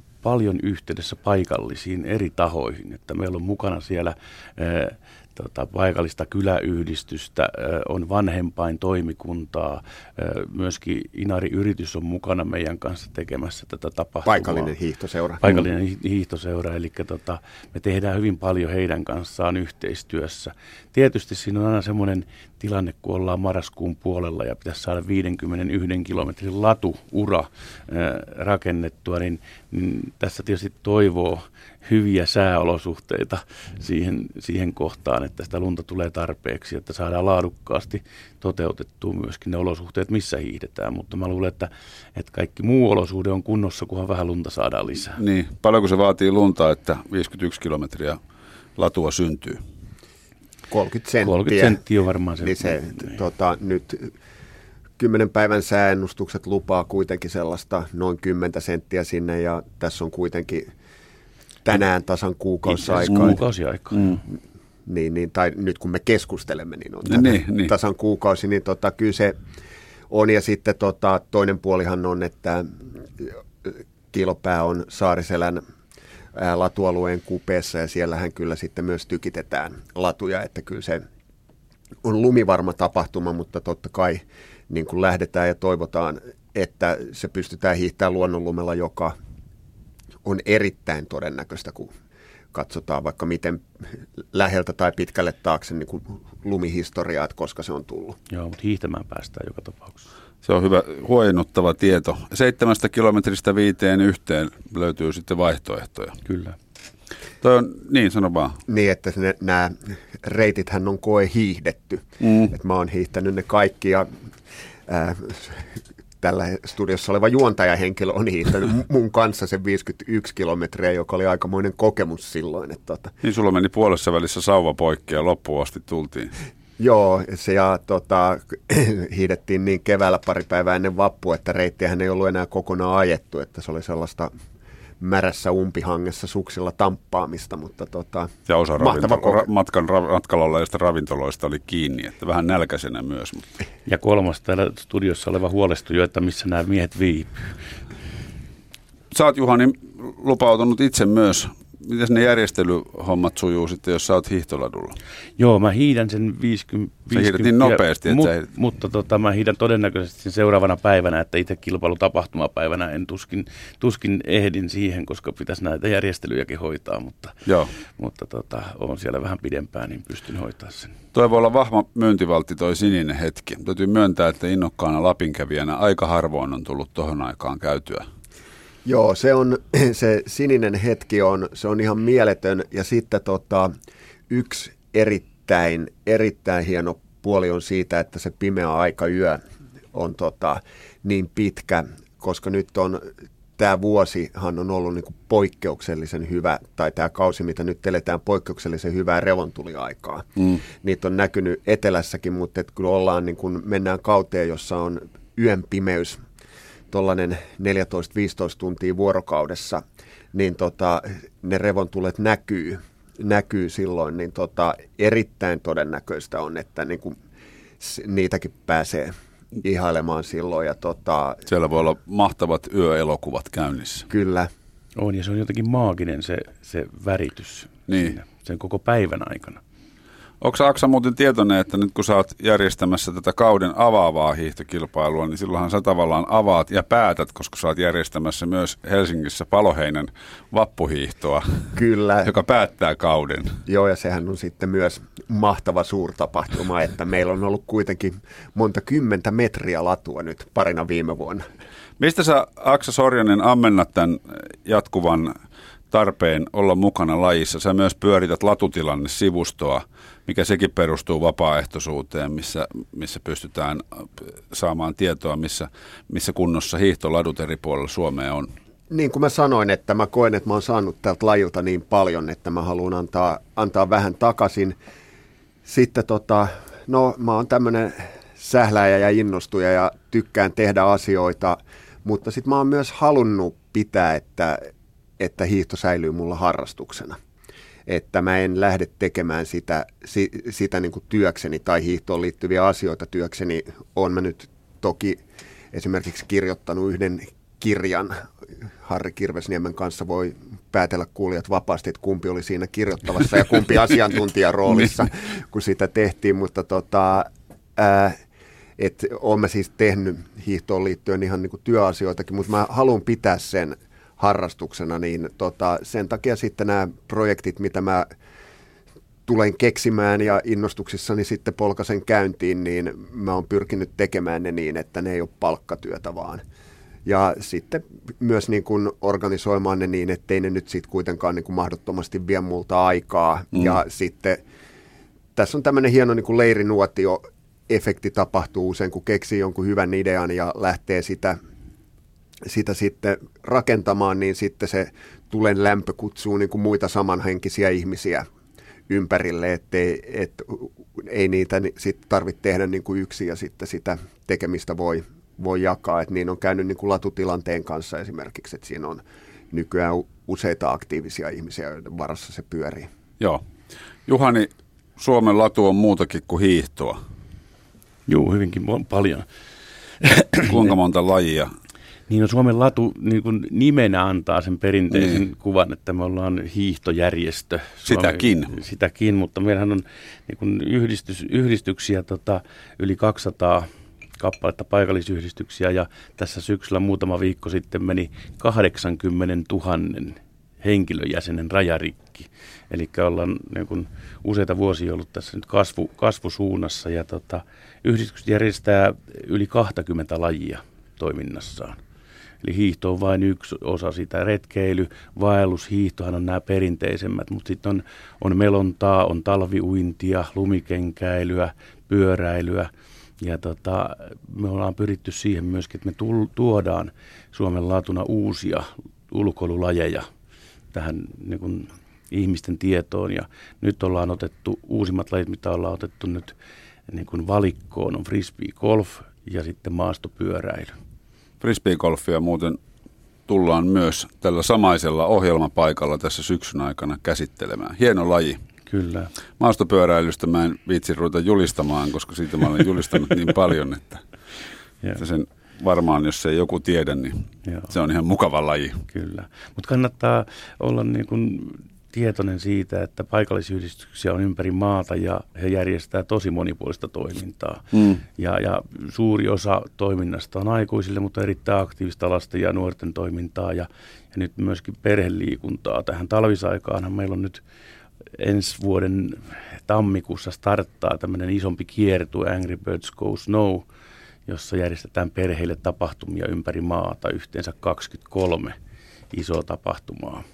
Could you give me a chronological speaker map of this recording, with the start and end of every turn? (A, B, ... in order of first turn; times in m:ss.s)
0:00.2-0:14.7 A
0:14.3-0:15.4 B
0:15.4-0:45.2 A
0:45.2-0:48.2 C
0:48.8-0:49.6 C
0:50.7-0:51.8 B
0:51.2-0:53.2 A
0:52.4-0:54.1 B
0:55.0-1:00.7 B
1:01.6-1:03.4 B
1:02.8-1:04.2 A
1:04.9-1:09.4 B
1:07.1-1:07.7 C
1:10.1-1:15.6 B
1:16.3-1:21.0 B
1:22.0-1:29.2 B
1:30.2-1:31.9 B
1:32.5-1:38.2 B
1:38.3-1:40.1 A
1:40.4-1:46.2 C
1:46.3-1:46.6 A
1:47.4-1:48.6 C
1:48.7-1:54.1 B
1:54.9-2:03.1 B
2:03.2-2:06.3 C
2:06.8-2:14.3 B
2:15.0-2:19.5 B
2:18.5-2:23.5 C
2:23.9-2:27.6 A
2:29.1-2:35.0 C
2:35.4-2:50.9 A
2:37.1-2:38.4 C
2:47.5-2:47.7 C
2:51.1-2:58.1 C
2:58.8-3:03.7 B
3:04.3-3:09.4 B
3:09.9-3:26.2 B
3:26.9-3:29.8 B
3:30.3-3:37.2 B
3:37.8-3:41.4 B
3:41.5-3:44.1 C
3:44.1-3:44.5 B
3:45.0-3:49.6 A
3:47.9-3:48.2 C
3:50.4-4:01.6 C
4:01.8-4:02.3 B
4:02.2-4:03.6 C
4:03.7-4:11.4 B
4:12.0-4:15.3 C
4:15.9-4:28.5 C
4:28.9-4:34.8 B
4:35.6-4:44.6 B
4:45.2-4:47.2 B
4:47.9-4:55.2 B
4:55.7-4:58.2 B
4:58.8-5:08.2 B
5:08.8-5:18.1 B
5:19.3-5:26.4 B
5:27.1-5:34.4 B
5:35.4-5:41.4 B
5:42.5-5:48.3 B
5:48.9-6:02.9 B
6:04.1-6:07.0 C
6:08.1-6:09.3 A
6:10.0-6:10.5 A
6:10.4-6:11.5 C
6:12.1-6:41.8 A
6:14.9-6:15.2 C
6:17.9-6:18.5 C
6:42.4-7:00.1 A
7:00.7-7:06.3 A
7:06.9-7:10.8 A
7:11.4-7:12.6 C
7:13.3-7:18.4 C
7:18.7-7:19.1 A
7:19.4-7:24.0 C
7:25.0-7:28.8 C
7:28.9-7:47.4 A
7:37.7-7:38.0 C
7:48.2-7:53.6 A
7:54.3-7:58.6 A
7:59.1-8:00.2 A